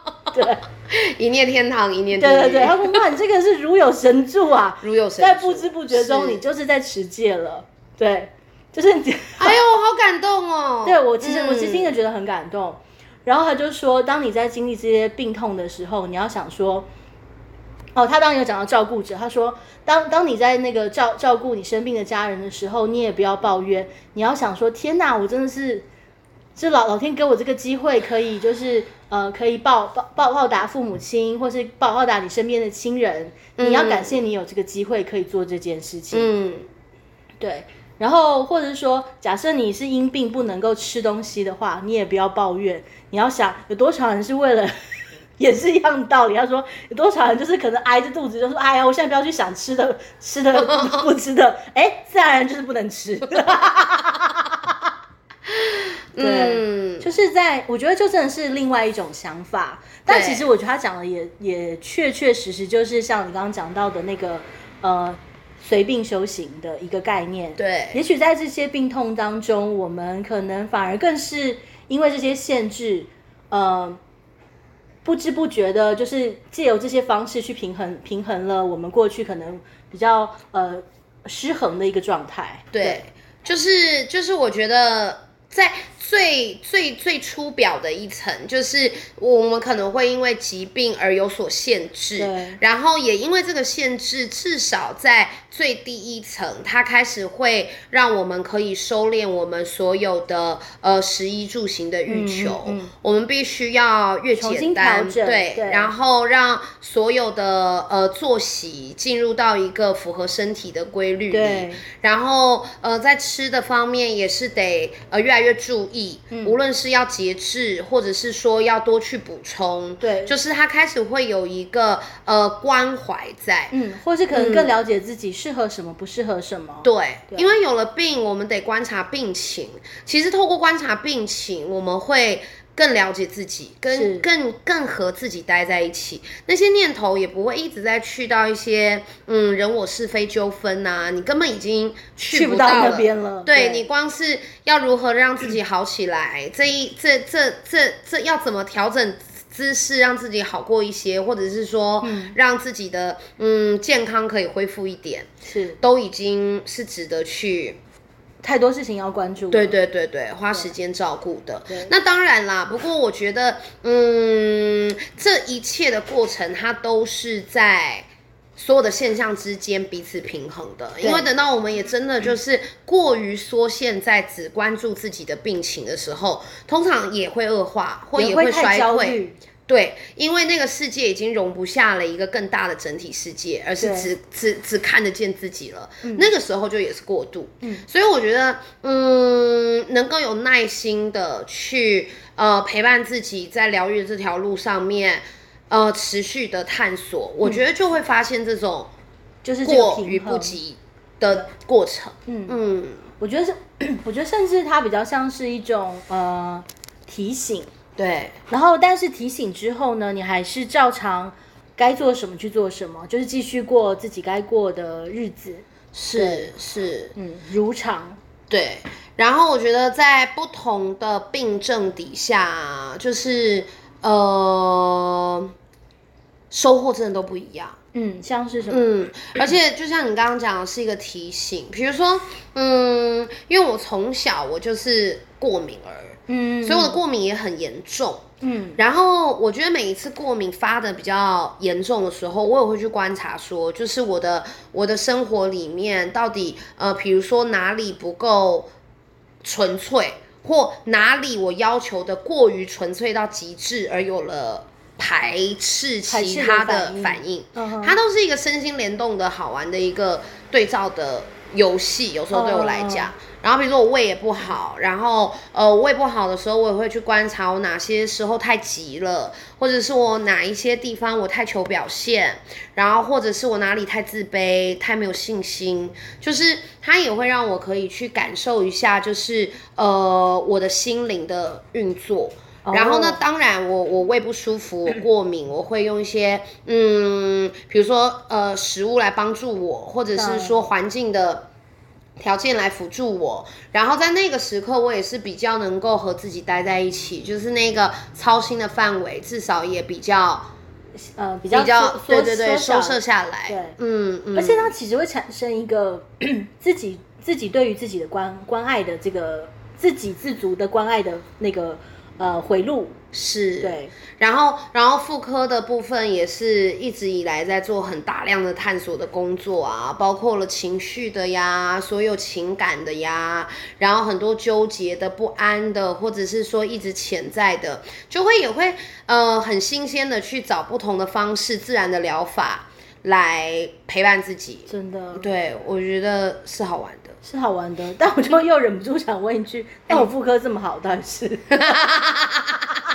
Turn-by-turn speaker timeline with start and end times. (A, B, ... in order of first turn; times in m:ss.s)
0:00.3-0:00.6 A
0:00.9-0:03.0 B
0:02.1-0:09.6 A
0:04.8-0:06.4 B
0:09.4-0:11.9 B
0:10.8-0:16.9 A
0:18.0-0:25.8 A
0:26.6-0:36.3 A
0:33.6-0:34.2 B
0:36.1-0:36.7 B
0:37.4-0:44.7 A
0:45.4-0:54.4 A
0:50.6-0:51.0 B
0:55.5-0:57.1 B
0:56.2-1:14.0 A
1:00.1-1:00.5 B
1:07.6-1:08.0 B
1:15.0-1:23.0 A
1:22.7-2:03.7 B
1:32.2-1:32.6 A
1:42.1-1:42.9 A
1:44.3-1:45.9 A
1:51.3-1:51.8 A
1:56.3-1:56.6 A
2:00.0-2:00.3 A
2:03.7-2:07.5 A
2:04.3-2:04.7 B
2:06.8-2:35.3 B
2:13.9-2:14.2 A
2:22.3-2:23.8 A
2:32.0-2:32.4 A
2:35.4-2:35.8 A
2:35.8-2:37.8 B
2:38.4-2:39.8 A
2:39.5-3:18.9 B
2:51.0-2:51.3 A
2:58.2-2:59.4 A
3:03.8-3:04.1 A
3:06.0-3:06.3 A
3:19.4-3:20.6 A
3:19.6-3:23.0 B
3:22.3-3:22.6 A
3:23.2-3:27.7 A
3:28.0-3:28.4 B
3:28.5-3:36.5 A
3:35.9-3:37.1 B
3:37.2-3:38.2 A
3:38.5-3:45.5 B
3:46.5-3:47.8 B
3:47.9-3:48.9 A
3:48.7-4:08.7 B
3:56.3-3:57.0 A
3:58.4-3:58.8 A
4:09.4-4:51.5 B
4:16.1-4:18.0 A
4:22.3-4:23.1 A
4:42.6-4:43.2 A
4:50.2-4:50.6 A
4:52.2-5:00.5 B
5:01.0-5:03.8 A
5:01.5-5:04.7 B
5:04.3-5:13.0 A
5:13.1-5:37.2 B
5:13.6-5:13.9 A
5:34.7-5:35.3 A
5:37.2-5:41.8 A
5:41.5-5:42.7 B